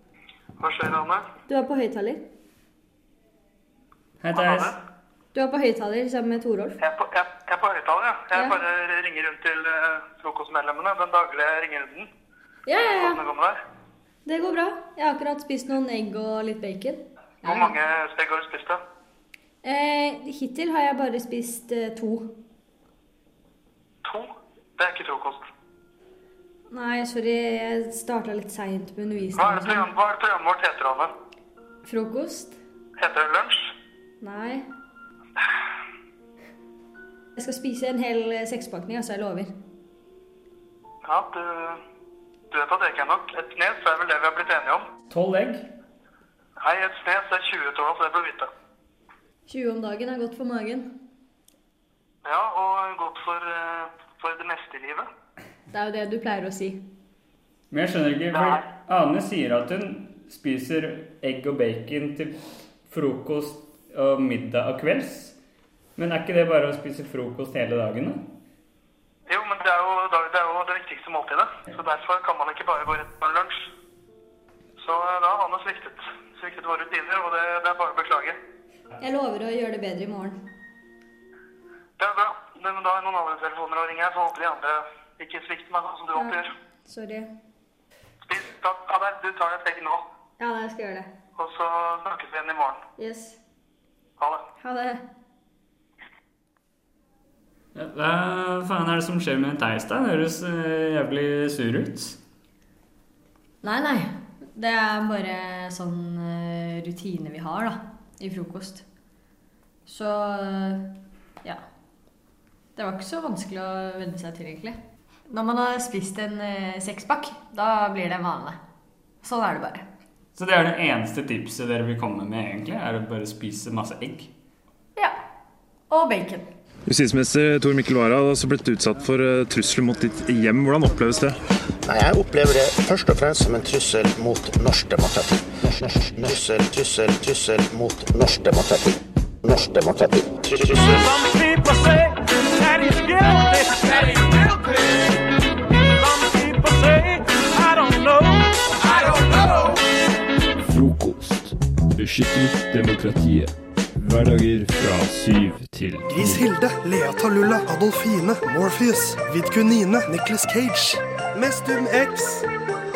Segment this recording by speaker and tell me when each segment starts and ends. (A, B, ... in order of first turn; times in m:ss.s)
0:00.6-0:01.3 A
0:01.5-0:02.2 B
0:04.2-0:04.8 C
0:04.4-0:04.7 A
0:05.3-0:06.8 B
0:06.8-0:12.1 A
0:12.7-0:13.2 B
0:12.8-0:13.6 A
0:14.2-0:17.7 B
0:17.4-0:18.8 A
0:19.6-0:22.4 B
0:24.0-0:25.4 A
0:26.7-0:29.9 B
0:29.3-0:31.1 A
0:31.8-0:32.6 B
0:33.0-0:33.7 A
0:34.2-0:34.7 B
0:37.4-0:39.5 B
0:41.0-0:41.8 A
0:42.5-0:44.9 A
0:45.1-0:45.6 C
0:46.6-0:48.5 A
0:49.5-0:50.9 B
0:52.2-0:55.1 A
0:55.7-0:56.8 B
0:57.7-1:05.4 C
0:58.3-0:58.6 A
1:06.0-1:08.2 C
1:09.3-1:13.7 A
1:14.8-1:18.4 A
1:19.0-1:20.4 B
1:22.0-1:26.5 A
1:26.2-1:27.3 B
1:28.2-1:30.0 A
1:30.4-1:31.1 B
1:31.4-1:32.8 A
1:33.0-1:33.4 B
1:34.6-1:35.0 B
1:37.7-1:42.2 C
1:43.6-1:48.8 B
1:49.9-1:51.6 B
1:52.8-1:58.6 B
1:59.2-1:59.9 B
2:00.4-2:04.3 C
2:05.9-2:06.5 B
2:06.9-2:07.7 D
2:08.4-2:09.9 D
2:11.9-2:21.2 E
2:30.7-2:36.4 F
2:36.1-2:42.2 G